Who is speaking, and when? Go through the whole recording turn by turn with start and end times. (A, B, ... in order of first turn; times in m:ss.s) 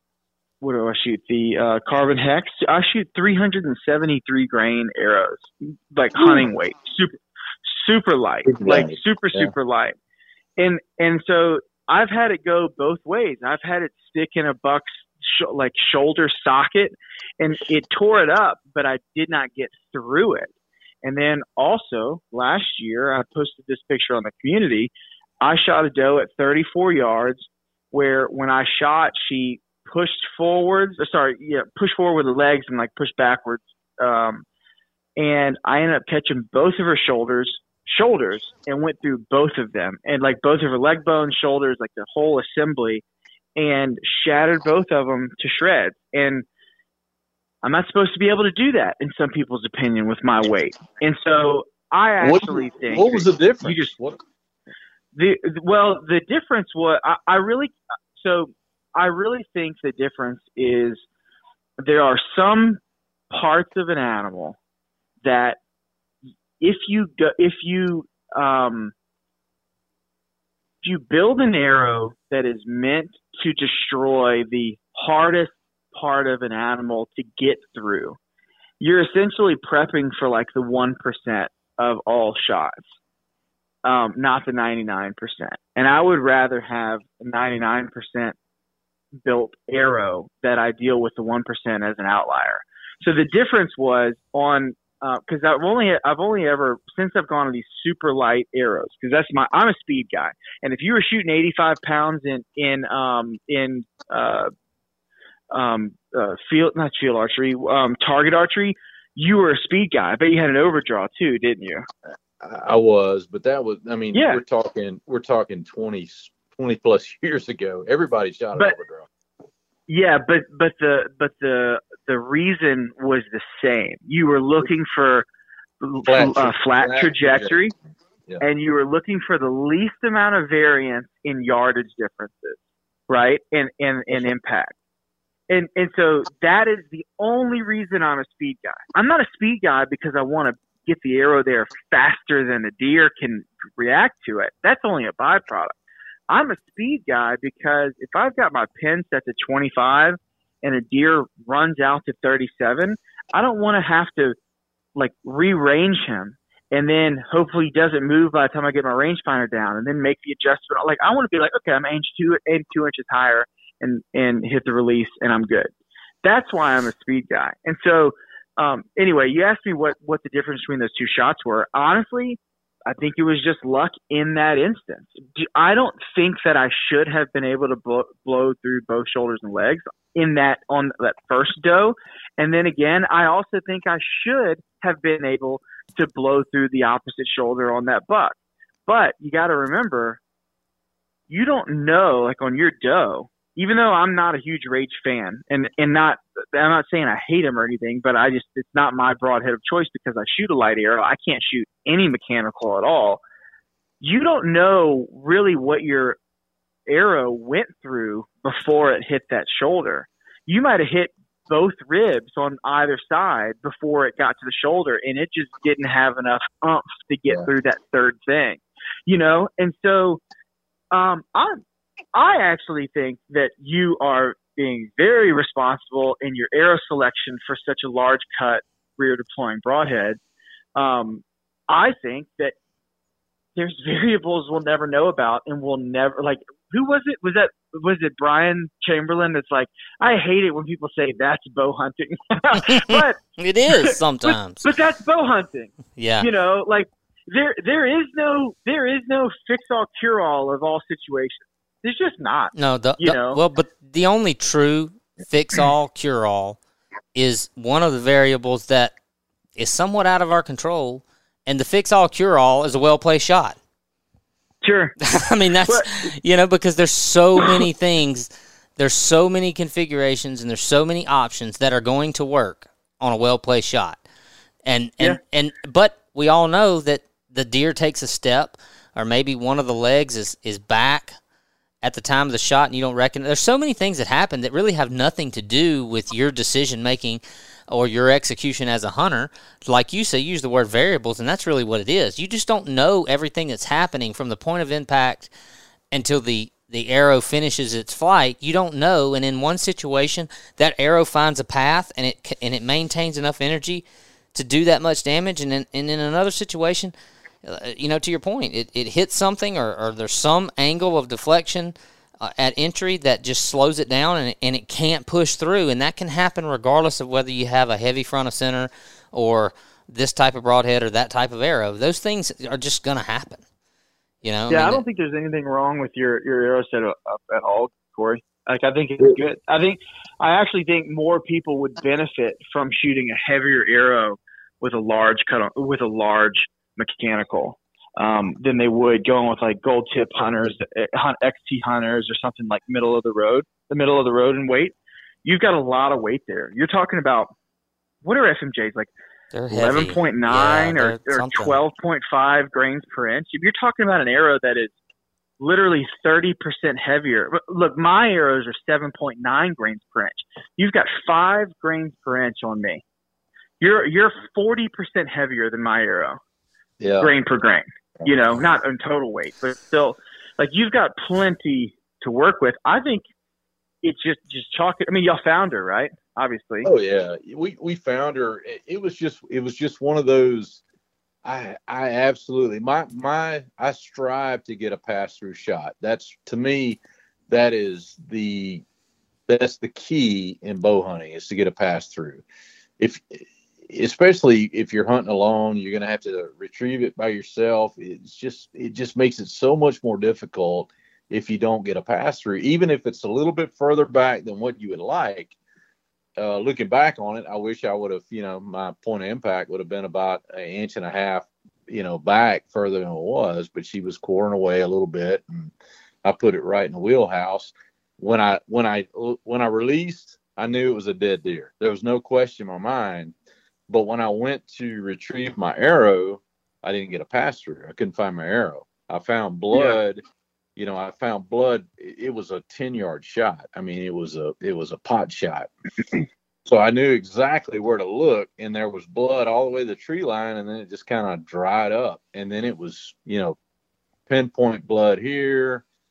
0:00.6-0:10.0 A
0:06.2-0:06.5 B
0:08.5-0:09.5 B
0:10.6-0:20.5 A
0:21.0-0:34.4 A
0:35.2-0:43.0 A
0:43.6-0:46.4 A
0:47.6-0:53.9 A
0:52.2-0:54.2 B
0:55.2-1:01.0 A
1:01.8-1:02.8 A
1:03.3-1:04.6 A
1:05.2-1:05.6 A
1:06.6-1:08.9 A
1:10.8-1:18.2 A
1:18.8-1:22.8 A
1:23.8-1:28.4 A
1:29.2-1:44.5 A
1:45.5-1:51.9 A
1:52.4-1:59.1 B
1:54.1-1:54.4 A
1:59.9-2:05.3 A
2:05.8-2:07.7 A
2:06.1-2:07.6 B
2:08.4-2:14.7 A
2:15.5-2:25.7 A
2:26.3-2:34.4 A
2:35.0-2:45.7 A
2:46.2-3:08.4 A
3:08.9-3:10.2 A
3:11.3-3:23.2 A
3:24.0-3:26.2 A
3:26.9-3:40.2 A
3:40.9-3:41.6 A
3:42.2-3:50.2 A
3:50.8-3:52.6 A
3:53.6-4:03.2 A
4:02.7-4:04.7 C
4:03.7-4:13.4 A
4:06.0-4:06.3 C
4:12.6-4:16.6 C
4:17.2-4:18.9 C
4:19.6-4:23.6 C
4:24.6-4:25.0 A
4:25.1-4:34.0 C
4:25.7-4:26.1 A
4:34.6-4:41.2 C
4:41.8-4:55.3 C
4:55.9-5:06.9 C
5:07.4-5:23.4 C
5:24.2-5:24.8 C
5:24.5-5:47.3 A
5:48.0-5:48.9 A
5:49.3-5:51.6 C
5:49.5-5:54.7 A
5:55.4-6:02.8 A
6:03.6-6:06.2 A
6:06.8-6:07.1 B
6:07.0-6:13.0 A
6:13.8-6:16.7 A
6:16.6-6:20.6 B
6:21.2-6:28.6 B
6:29.3-6:32.2 B
6:32.8-6:45.4 B
6:46.2-6:55.5 B
6:56.0-7:03.1 B
7:03.7-7:10.0 B
7:10.6-7:15.5 B
7:16.5-7:23.4 B
7:24.1-7:25.6 B